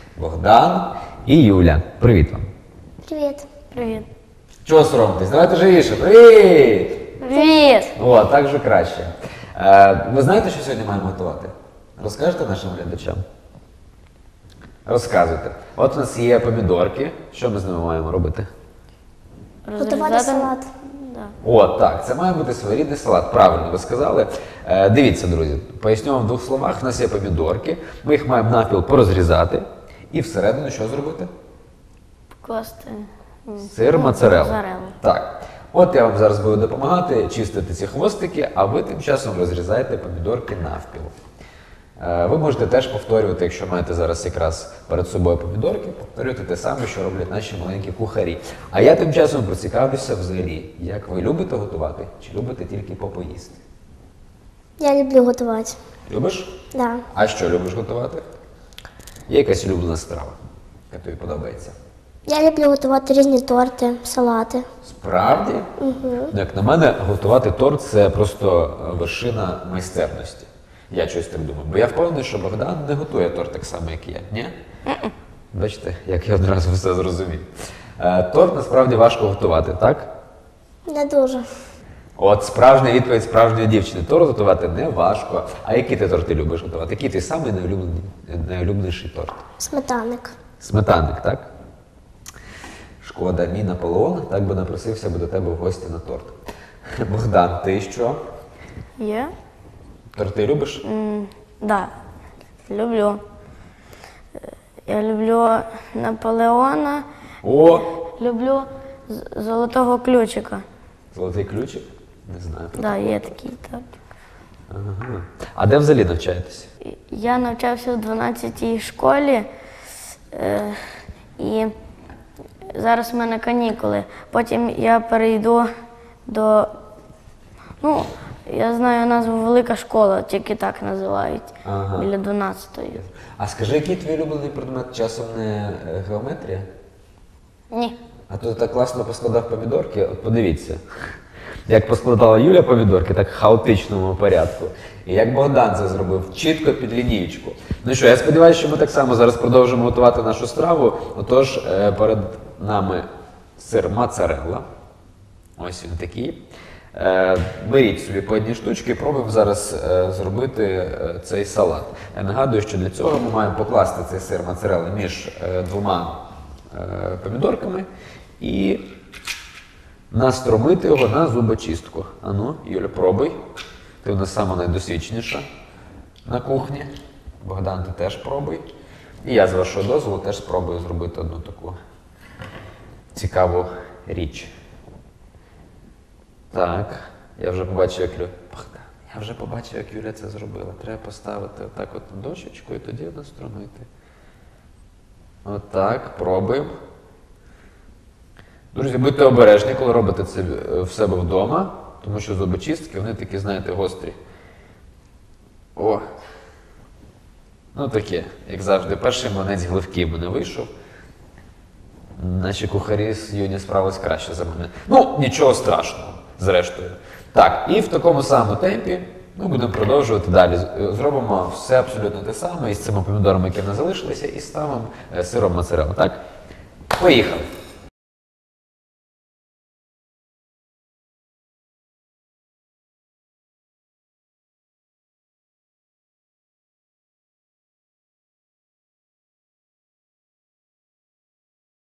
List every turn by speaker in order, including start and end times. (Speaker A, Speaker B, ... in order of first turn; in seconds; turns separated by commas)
Speaker A: 0.2-2.4, Speaker B: 3.0-3.4, Speaker C: 3.7-4.0, Speaker A: 4.6-7.2, Speaker C: 7.2-7.9, Speaker B: 7.3-7.8, Speaker A: 7.9-13.2, Speaker A: 14.8-18.5, Speaker C: 19.6-21.3, Speaker B: 19.8-20.7, Speaker A: 21.4-31.3, Speaker C: 32.4-34.9, Speaker A: 33.6-41.1, Speaker A: 42.0-53.6, Speaker B: 54.8-55.8, Speaker A: 56.1-56.6, Speaker B: 56.7-57.0, Speaker A: 57.1-58.2, Speaker A: 59.3-60.4, Speaker A: 60.9-61.7, Speaker B: 62.3-64.6, Speaker A: 64.8-65.7, Speaker B: 65.8-66.3, Speaker A: 66.3-74.5, Speaker A: 75.5-77.5, Speaker A: 78.0-80.1, Speaker B: 80.9-81.5, Speaker A: 82.2-89.4, Speaker B: 89.6-90.3, Speaker A: 90.6-91.5, Speaker A: 93.0-96.3, Speaker A: 97.0-98.2, Speaker C: 99.0-99.3, Speaker A: 100.1-100.8, Speaker C: 100.8-101.9, Speaker C: 102.7-103.2, Speaker C: 104.8-107.0, Speaker A: 107.4-107.9, Speaker C: 108.2-110.6, Speaker A: 111.1-113.3, Speaker C: 112.8-113.8, Speaker A: 114.7-116.7, Speaker C: 117.1-119.5, Speaker C: 120.3-120.8, Speaker C: 121.4-121.7, Speaker C: 122.7-125.7, Speaker C: 126.3-126.7, Speaker C: 127.8-133.0, Speaker A: 131.6-132.1, Speaker A: 132.9-136.7, Speaker C: 137.7-138.0, Speaker A: 138.3-140.8, Speaker A: 141.7-154.7, Speaker A: 155.6-156.4, Speaker A: 156.9-167.9, Speaker A: 168.4-168.8, Speaker A: 170.1-173.4, Speaker A: 174.0-175.5, Speaker A: 176.2-178.7, Speaker A: 179.2-181.8, Speaker A: 183.1-184.5, Speaker A: 186.5-193.9, Speaker A: 195.4-196.7, Speaker A: 198.7-204.2, Speaker A: 205.8-206.1, Speaker A: 207.7-210.7, Speaker A: 212.2-226.2, Speaker A: 226.9-227.5